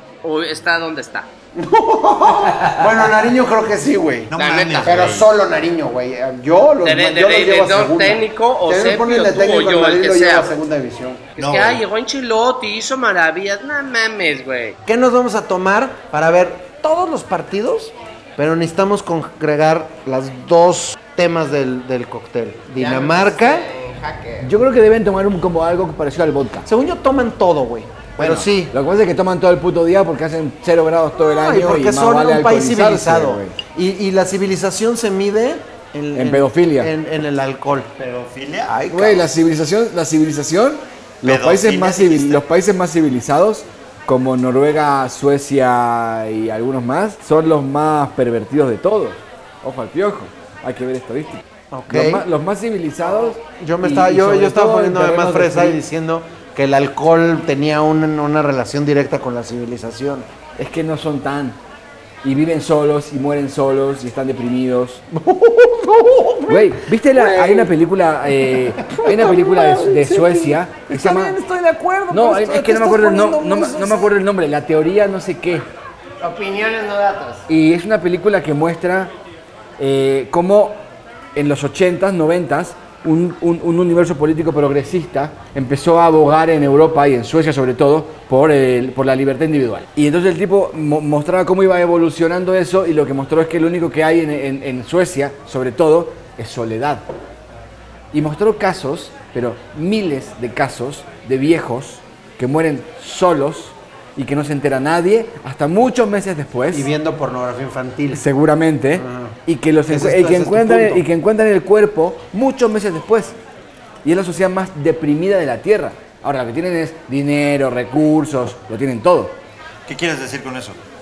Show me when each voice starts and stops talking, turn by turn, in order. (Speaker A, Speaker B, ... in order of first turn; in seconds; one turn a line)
Speaker A: 0.2-1.3
Speaker B: 1.5-4.3
Speaker C: 4.3-5.3
Speaker A: 4.3-5.0
Speaker B: 4.8-11.3
Speaker A: 6.8-10.5
Speaker A: 11.4-14.8
Speaker C: 11.4-11.8
Speaker B: 14.8-23.7
Speaker D: 22.8-24.5
Speaker E: 24.4-26.7
Speaker B: 26.6-28.7
Speaker E: 28.2-33.5
Speaker B: 31.2-37.9
Speaker E: 36.1-36.9
Speaker C: 38.0-38.8
Speaker B: 38.7-39.3
Speaker E: 38.9-55.8
Speaker C: 41.2-42.4
Speaker B: 51.7-52.2
Speaker B: 53.6-60.2
Speaker E: 60.6-61.6
Speaker E: 62.2-65.0
Speaker B: 65.1-67.7
Speaker E: 66.5-71.3
Speaker B: 68.8-74.1
Speaker E: 72.1-75.7
Speaker D: 76.2-77.5
Speaker E: 77.5-79.1
Speaker E: 79.8-80.8
Speaker E: 81.3-97.0
Speaker E: 98.1-106.9
Speaker B: 106.7-108.2
Speaker E: 108.1-113.3
Speaker B: 109.0-109.3
Speaker B: 109.9-111.0
Speaker E: 114.0-119.4
Speaker C: 119.8-120.8